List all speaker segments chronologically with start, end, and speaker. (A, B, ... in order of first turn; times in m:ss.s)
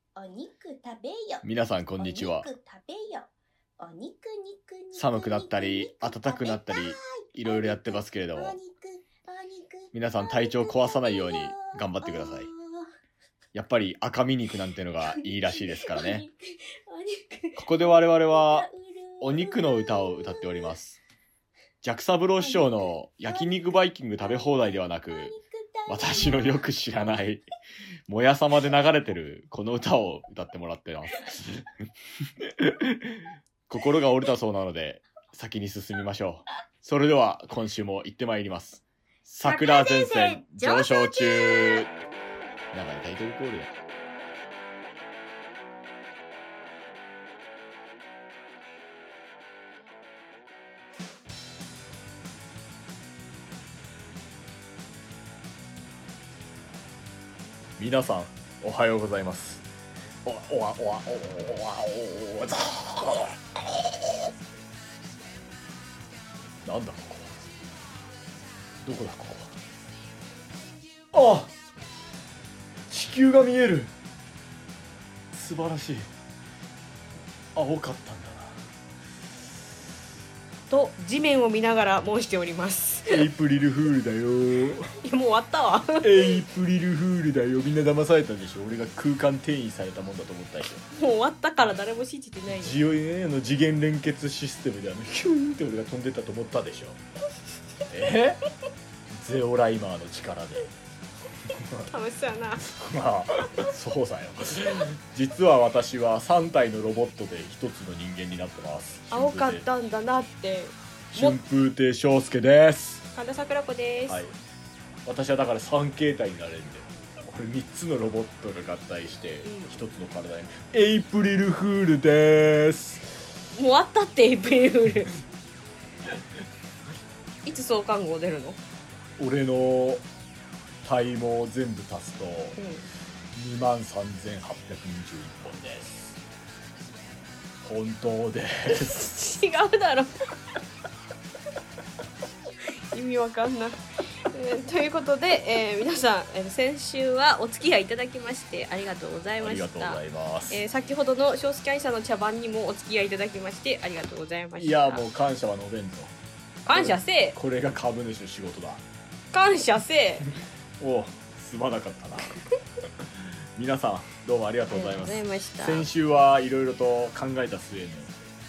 0:00.2-0:01.4 A
0:00.2-0:01.4 B
0:01.4-0:02.5 C
0:02.0-0:03.3 A
0:02.2-0:03.2 B
0:03.8-0:07.8 A
0:04.9-0:08.6 C
0:08.4-0:12.8 A
0:09.9-0:12.5 C
0:13.5-0:16.3 C
0:16.9-0:17.2 A
0:17.6-0:18.7 C
0:18.7-0:19.2 A
0:19.2-0:21.0 C
0:21.8-0:25.3 C
0:25.2-0:26.3 A
0:25.9-0:27.4 C
0:28.1-0:41.9 C
0:39.4-0:41.7 B
0:42.7-0:43.7 C
0:57.8-0:59.6 C
1:00.2-1:04.3 C
1:06.6-1:07.4 C
1:08.8-1:09.6 C
1:11.1-1:11.5 C
1:12.9-1:13.9 C
1:15.3-1:16.1 C
1:17.5-1:18.6 C
1:20.7-1:23.3 B
1:23.1-1:24.9 C
1:25.0-1:26.4 B
1:26.0-1:30.8 C
1:30.9-1:32.8 B
1:32.5-1:37.0 C
1:37.9-1:38.4 C
1:39.1-1:40.7 C
1:41.4-1:41.9 C
1:41.9-1:42.6 B
1:42.6-1:49.6 C
1:49.1-1:51.4 B
1:51.1-1:53.0 C
1:53.1-1:54.2 B
1:54.1-1:54.4 C
1:55.0-2:03.0 C
1:59.4-1:59.7 B
2:03.5-2:05.1 B
2:07.4-2:08.6 B
2:09.2-2:10.0 C
2:10.8-2:12.6 C
2:12.6-2:12.8 B
2:13.3-2:16.2 C
2:17.6-2:19.1 C
2:18.7-2:20.2 B
2:22.9-2:35.0 B
2:29.4-2:30.6 C
2:34.6-2:36.1 C
2:36.6-2:37.4 B
2:36.7-2:38.8 C
2:39.3-2:40.3 B
2:40.8-2:42.4 C
2:43.0-2:48.1 C
2:44.7-2:45.9 B